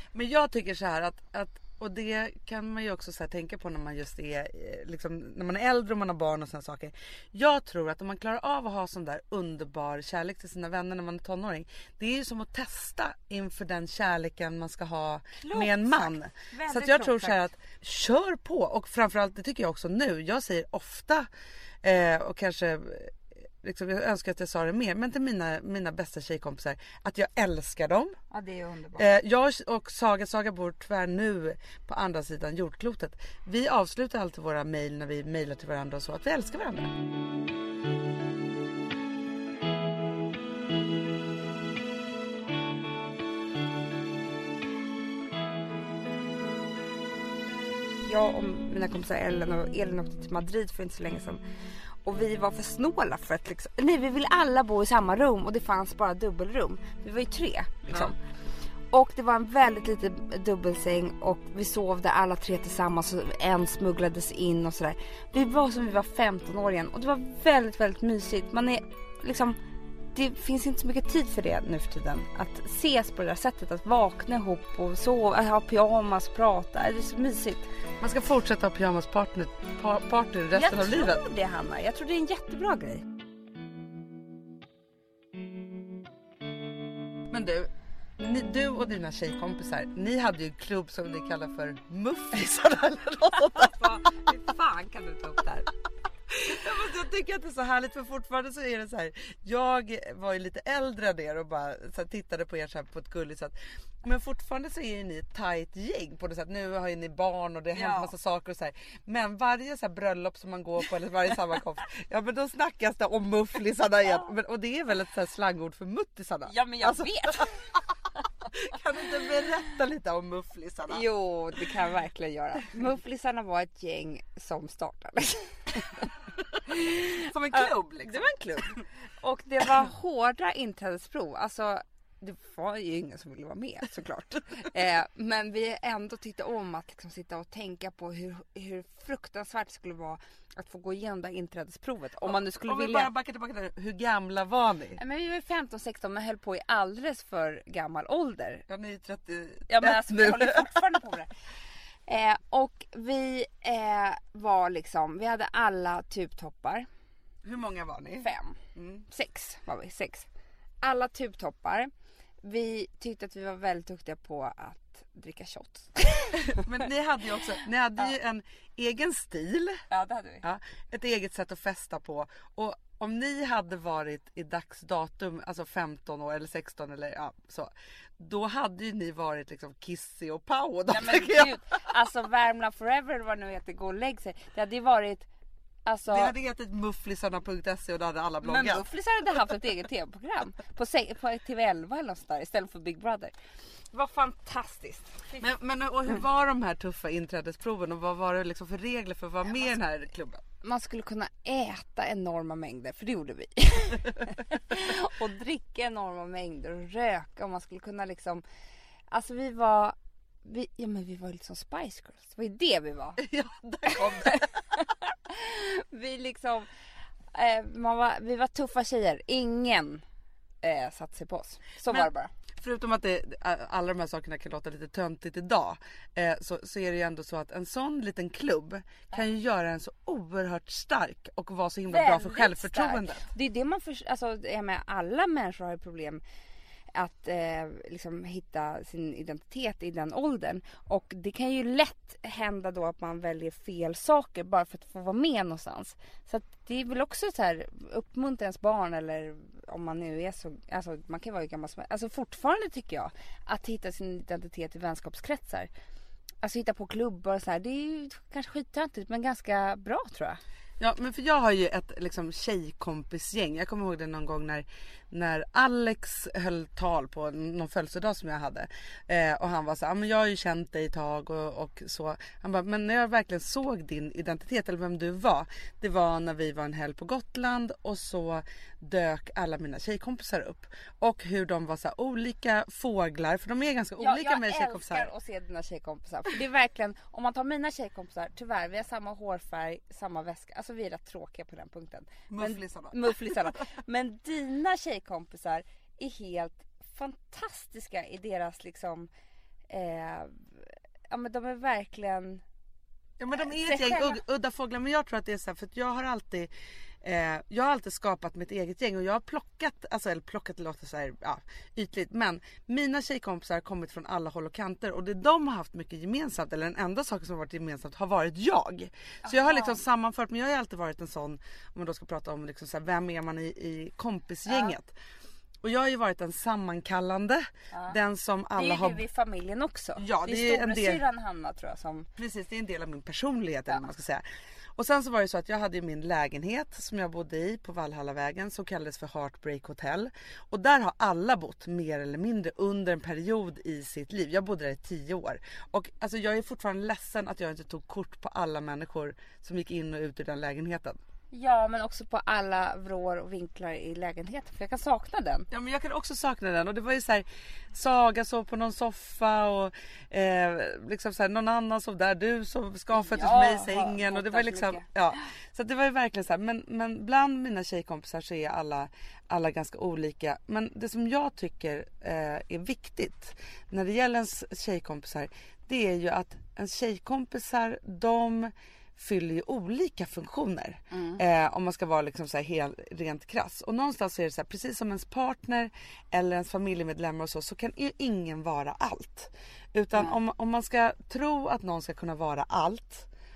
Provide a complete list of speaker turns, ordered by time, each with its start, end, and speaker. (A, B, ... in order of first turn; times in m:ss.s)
0:00.1-0:21.3 A
0:15.4-0:17.4 B
0:21.8-0:28.2 A
0:28.3-0:29.0 B
0:29.0-0:36.9 A
0:48.0-0:51.4 B
0:52.0-0:58.2 B
0:58.9-1:09.6 B
1:10.1-1:17.7 B
1:18.0-1:21.2 A
1:20.5-1:23.0 B
1:27.3-1:34.2 A
1:33.5-1:35.7 B
1:36.3-1:57.5 A
1:47.8-1:48.1 B
1:56.5-1:57.5 B
1:58.4-2:01.0 A
2:00.9-2:06.1 B
2:06.6-2:08.3 A
2:06.7-2:23.1 B
2:22.2-2:25.0 A
2:25.0-2:28.6 B
2:28.7-2:30.7 A
2:29.7-2:31.3 B
2:32.0-2:36.9 B
2:37.4-2:39.0 A
2:38.2-2:40.3 B
2:40.8-2:41.9 B
2:42.4-2:46.6 B
2:46.4-2:49.8 A
2:49.9-2:50.4 B
2:50.4-3:01.6 A
3:00.9-3:05.3 B
3:05.8-3:06.3 B
3:06.1-3:08.8 A
3:08.4-3:13.4 B
3:13.9-3:15.4 B
3:15.4-3:20.4 A
3:20.6-3:28.4 B
3:29.1-3:33.2 B
3:33.2-3:34.5 A
3:33.9-3:36.7 B
3:37.3-3:40.0 B
3:40.6-3:42.3 B
3:42.6-3:53.3 A
3:51.9-3:56.2 B
3:56.9-4:15.7 B
4:16.4-4:20.4 B
4:20.8-4:45.1 A
4:44.0-4:59.1 B
4:52.3-4:53.4 A
4:59.7-5:02.4 B
5:03.2-5:06.5 A
5:03.4-5:04.2 B
5:07.0-5:24.9 A
5:19.2-5:19.8 B
5:24.5-5:24.7 B
5:25.6-5:29.0 A
5:28.6-5:32.1 B
5:30.0-5:31.0 A
5:32.2-5:34.2 A
5:34.8-5:51.0 A
5:51.3-5:55.5 B
5:55.5-6:33.1 A
6:02.9-6:04.8 B
6:20.9-6:21.2 B